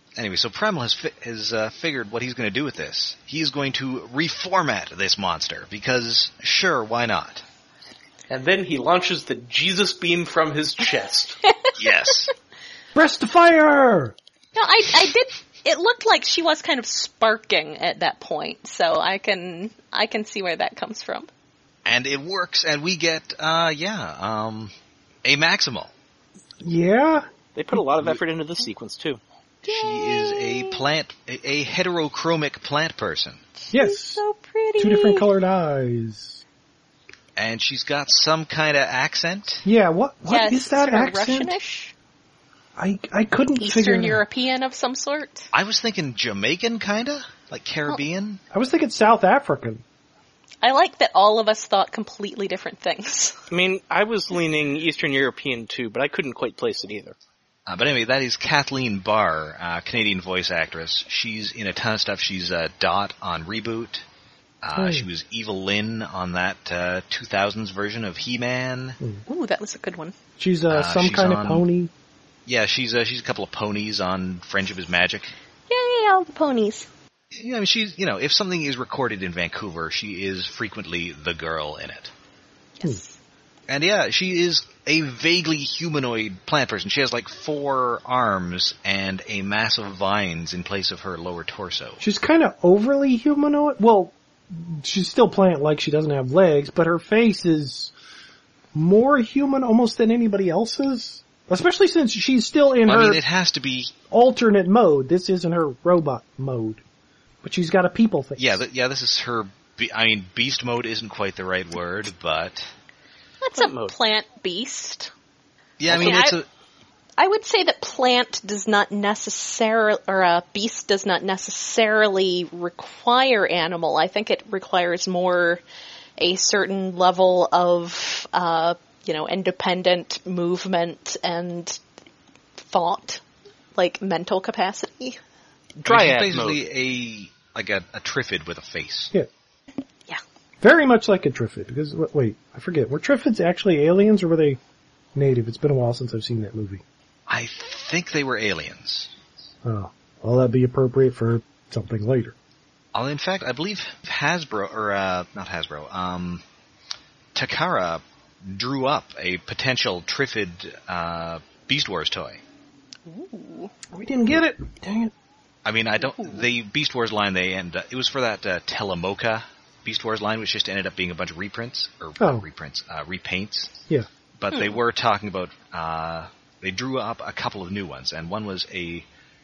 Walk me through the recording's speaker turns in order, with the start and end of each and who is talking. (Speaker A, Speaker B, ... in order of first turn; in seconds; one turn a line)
Speaker A: 0.1-7.4
Speaker B: 8.3-11.4
Speaker A: 11.8-12.3
Speaker C: 12.9-14.1
Speaker D: 14.5-21.3
Speaker A: 21.8-24.7
Speaker A: 25.2-25.9
Speaker C: 26.6-27.8
Speaker B: 27.5-29.2
Speaker A: 29.6-33.4
Speaker D: 29.6-30.8
Speaker D: 33.6-35.2
Speaker C: 33.7-34.2
Speaker C: 34.8-36.4
Speaker A: 37.4-39.6
Speaker C: 39.6-41.5
Speaker D: 40.3-41.9
Speaker C: 42.8-44.2
Speaker D: 43.6-45.5
Speaker A: 45.5-48.4
Speaker C: 48.5-49.8
Speaker D: 50.6-53.4
Speaker B: 53.5-57.1
Speaker A: 57.7-64.0
Speaker A: 64.6-69.0
Speaker C: 64.8-65.0
Speaker D: 69.3-70.1
Speaker C: 70.4-71.9
Speaker A: 70.7-71.6
Speaker A: 72.5-75.3
Speaker D: 75.7-76.9
Speaker A: 77.3-82.1
Speaker D: 82.8-83.2
Speaker A: 83.7-92.0
Speaker C: 92.0-97.9
Speaker C: 98.7-103.2
Speaker A: 102.8-103.9
Speaker C: 104.1-106.8
Speaker C: 107.4-108.6
Speaker A: 108.4-112.7
Speaker D: 113.4-115.1
Speaker B: 113.5-113.9
Speaker A: 115.8-116.5
Speaker D: 115.9-116.4
Speaker D: 117.2-125.6
Speaker D: 126.2-131.8
Speaker D: 132.6-133.2
Speaker D: 133.7-135.2
Speaker B: 135.8-136.6
Speaker A: 135.8-139.1
Speaker C: 140.6-144.6
Speaker C: 145.1-146.8
Speaker A: 147.3-149.1
Speaker C: 149.6-152.3
Speaker A: 152.9-156.4
Speaker A: 157.3-162.4
Speaker D: 163.1-163.7
Speaker C: 163.9-165.1
Speaker A: 165.6-173.8
Speaker C: 172.2-172.4
Speaker A: 174.4-179.1